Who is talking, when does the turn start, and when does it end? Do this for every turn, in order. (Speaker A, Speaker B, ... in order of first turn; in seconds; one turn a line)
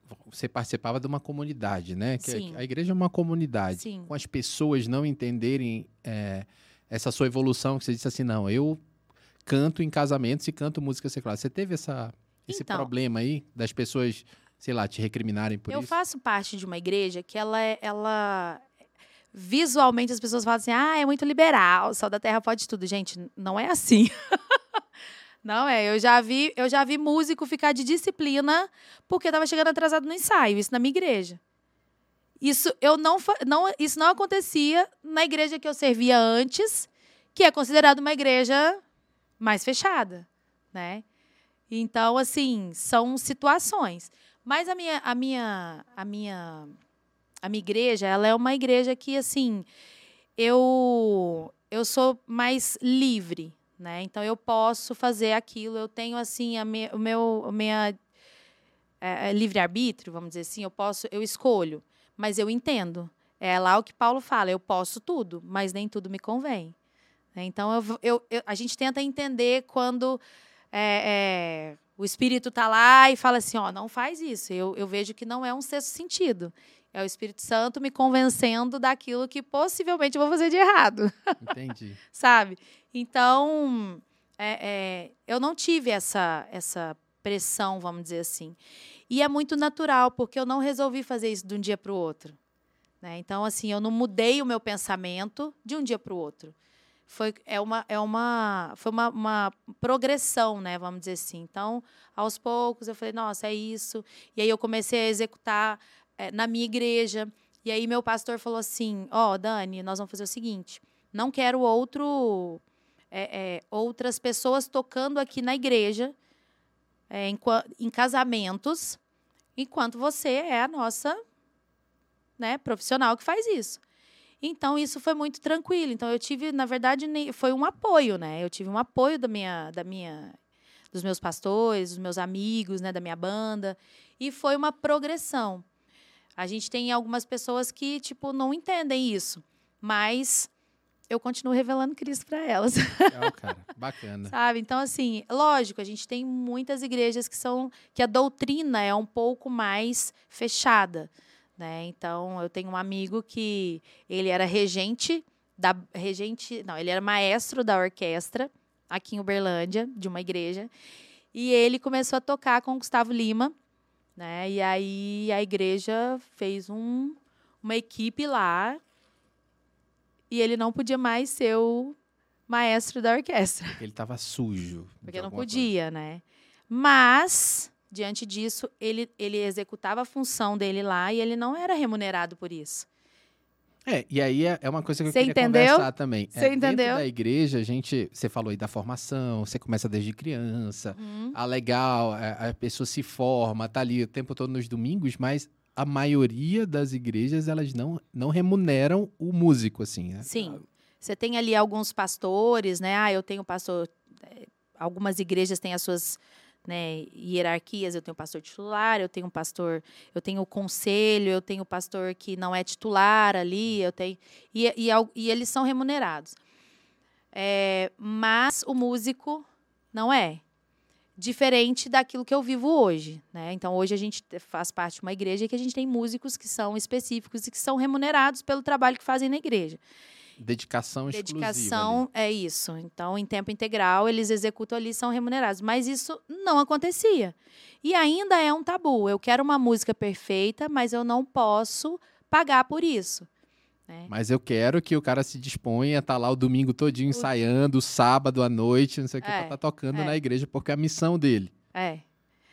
Speaker A: 0.2-8.8
Speaker B: 2.2-2.6
Speaker B: 3.7-4.1
Speaker A: 9.4-15.9
Speaker B: 12.5-12.9
Speaker B: 15.7-18.6
Speaker B: 19.3-24.6
Speaker B: 25.4-31.4
Speaker B: 32.4-38.8
Speaker B: 39.4-41.0
Speaker B: 41.7-46.7
Speaker B: 47.4-49.6
Speaker B: 50.4-58.0
Speaker B: 59.0-66.7
Speaker B: 67.3-70.2
Speaker B: 70.7-81.4
Speaker A: 81.4-82.0
Speaker B: 82.1-88.6
Speaker B: 89.1-92.3
Speaker B: 93.0-96.5
Speaker B: 97.1-116.1
Speaker B: 117.1-119.0
Speaker B: 119.5-121.2
Speaker B: 122.4-123.8
Speaker B: 124.4-130.3
Speaker B: 130.9-135.6
Speaker B: 136.4-140.5
Speaker B: 141.1-143.3
Speaker A: 143.1-144.3
Speaker B: 144.3-160.7
Speaker B: 161.3-163.5
Speaker B: 164.2-168.8
Speaker B: 170.3-172.0
Speaker B: 172.5-173.8
Speaker A: 173.8-175.7
Speaker B: 175.1-182.9
Speaker A: 183.8-200.3
Speaker B: 185.1-187.0
Speaker B: 190.9-191.3
Speaker B: 200.2-216.4
Speaker B: 217.3-220.4
Speaker B: 221.2-229.8
Speaker A: 230.4-232.0
Speaker B: 231.1-243.3
Speaker A: 244.1-251.5
Speaker B: 249.2-250.2
Speaker B: 251.7-252.0